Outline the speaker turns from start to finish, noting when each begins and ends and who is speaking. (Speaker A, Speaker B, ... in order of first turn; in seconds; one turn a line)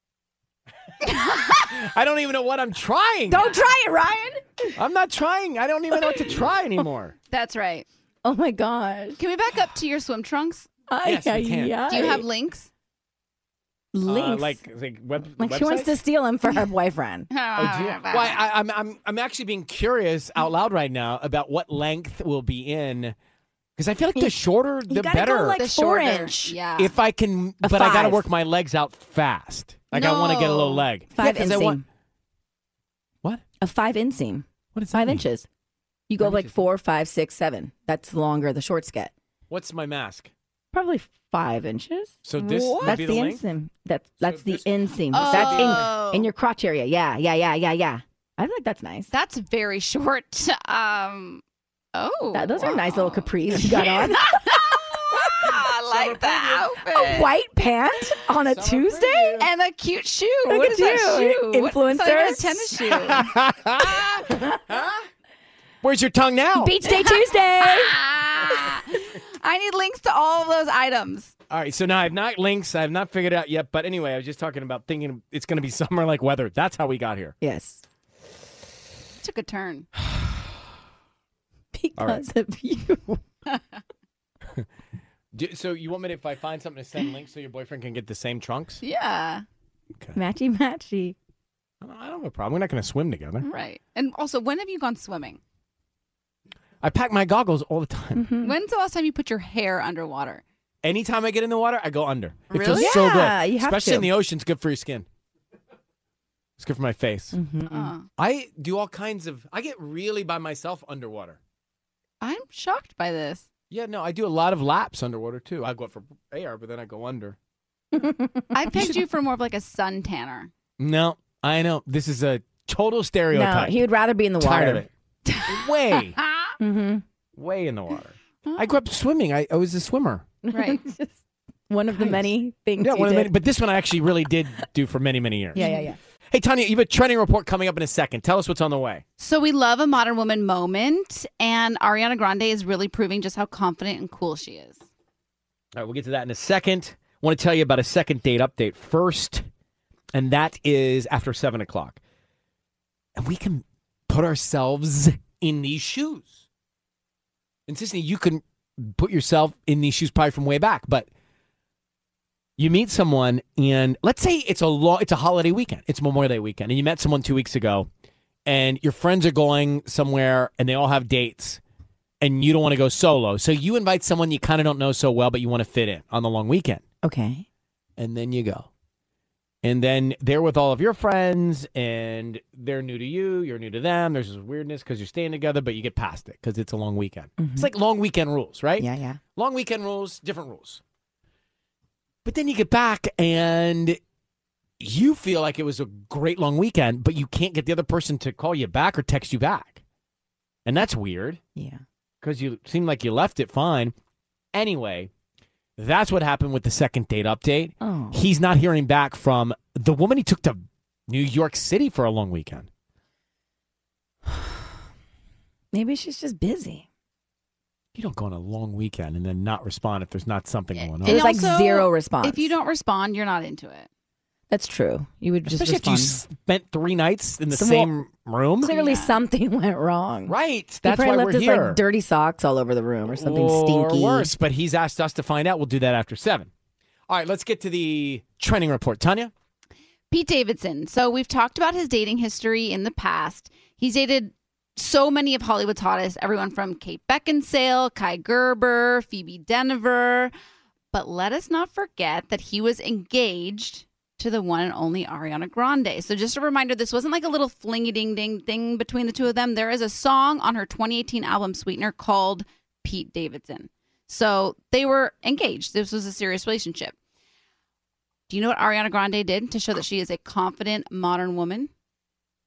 Speaker A: 1.1-1.6
Speaker B: 1.6-3.5
Speaker C: 3.3-4.8
Speaker B: 4.8-7.2
Speaker C: 6.0-6.3
Speaker A: 7.3-7.9
Speaker C: 8.2-9.2
Speaker A: 9.2-10.7
Speaker C: 10.9-12.2
Speaker B: 11.0-11.9
Speaker A: 11.9-12.7
Speaker C: 13.9-14.6
Speaker B: 14.1-16.0
Speaker C: 15.4-17.3
Speaker A: 17.3-18.4
Speaker B: 17.6-23.1
Speaker B: 23.8-25.6
Speaker C: 24.9-26.6
Speaker A: 25.6-26.9
Speaker B: 26.8-31.8
Speaker C: 27.6-28.2
Speaker A: 29.9-30.8
Speaker C: 31.1-31.8
Speaker C: 33.6-35.5
Speaker B: 34.7-35.2
Speaker C: 36.1-39.1
Speaker B: 36.2-36.6
Speaker B: 39.5-40.3
Speaker C: 40.7-49.1
Speaker B: 42.2-43.4
Speaker A: 42.4-43.0
Speaker B: 44.2-45.9
Speaker A: 45.1-46.3
Speaker A: 49.1-51.4
Speaker A: 51.9-57.3
Speaker C: 52.3-54.6
Speaker C: 55.2-55.5
Speaker B: 55.9-56.7
Speaker C: 56.9-59.5
Speaker B: 58.4-59.5
Speaker A: 59.4-63.3
Speaker C: 60.5-62.8
Speaker B: 62.9-64.9
Speaker C: 64.3-64.6
Speaker B: 65.8-66.8
Speaker C: 66.6-68.0
Speaker A: 66.9-71.3
Speaker B: 71.5-77.3
Speaker C: 77.4-77.8
Speaker A: 79.2-79.9
Speaker B: 80.0-80.5
Speaker C: 81.7-83.2
Speaker B: 82.0-82.2
Speaker B: 85.3-88.8
Speaker A: 88.8-89.4
Speaker C: 90.2-91.2
Speaker B: 91.8-93.5
Speaker A: 93.4-95.4
Speaker B: 96.8-98.3
Speaker C: 98.2-98.5
Speaker A: 98.4-100.4
Speaker B: 100.8-105.0
Speaker A: 102.5-103.0
Speaker C: 102.7-104.1
Speaker B: 106.6-107.4
Speaker C: 107.3-107.9
Speaker A: 107.7-108.0
Speaker B: 108.2-111.4
Speaker A: 112.2-113.5
Speaker B: 113.7-117.4
Speaker C: 117.9-118.5
Speaker A: 118.5-120.5
Speaker B: 118.7-119.0
Speaker B: 120.8-123.9
Speaker C: 123.3-124.8
Speaker B: 124.4-124.9
Speaker B: 125.5-126.2
Speaker C: 126.6-127.0
Speaker B: 127.3-130.3
Speaker C: 130.4-131.2
Speaker A: 130.5-130.8
Speaker C: 131.7-133.3
Speaker B: 132.8-135.7
Speaker C: 135.5-136.0
Speaker A: 135.6-135.9
Speaker B: 136.3-139.0
Speaker A: 139.2-144.8
Speaker B: 145.8-149.5
Speaker B: 150.1-152.0
Speaker B: 153.2-156.4
Speaker B: 157.7-161.1
Speaker B: 162.6-167.9
Speaker B: 168.5-171.6
Speaker B: 172.2-176.8
Speaker C: 177.0-177.5
Speaker B: 178.0-178.7
Speaker B: 179.6-190.8
Speaker C: 187.4-187.7
Speaker C: 188.8-189.2
Speaker B: 192.2-194.0
Speaker B: 194.8-199.8
Speaker B: 200.7-201.4
Speaker C: 201.6-201.8
Speaker B: 202.2-203.9
Speaker B: 204.5-205.1
Speaker B: 205.8-212.7
Speaker C: 207.8-208.2
Speaker C: 215.7-216.8
Speaker B: 217.9-221.2
Speaker A: 220.8-223.9
Speaker C: 221.0-222.5
Speaker C: 224.5-226.2
Speaker B: 225.5-228.7
Speaker C: 227.5-228.0
Speaker C: 228.6-234.3
Speaker A: 228.6-229.2
Speaker B: 230.3-231.8
Speaker B: 233.0-236.5
Speaker B: 237.1-239.3
Speaker A: 240.1-250.3
Speaker A: 250.9-266.9
Speaker A: 268.3-271.7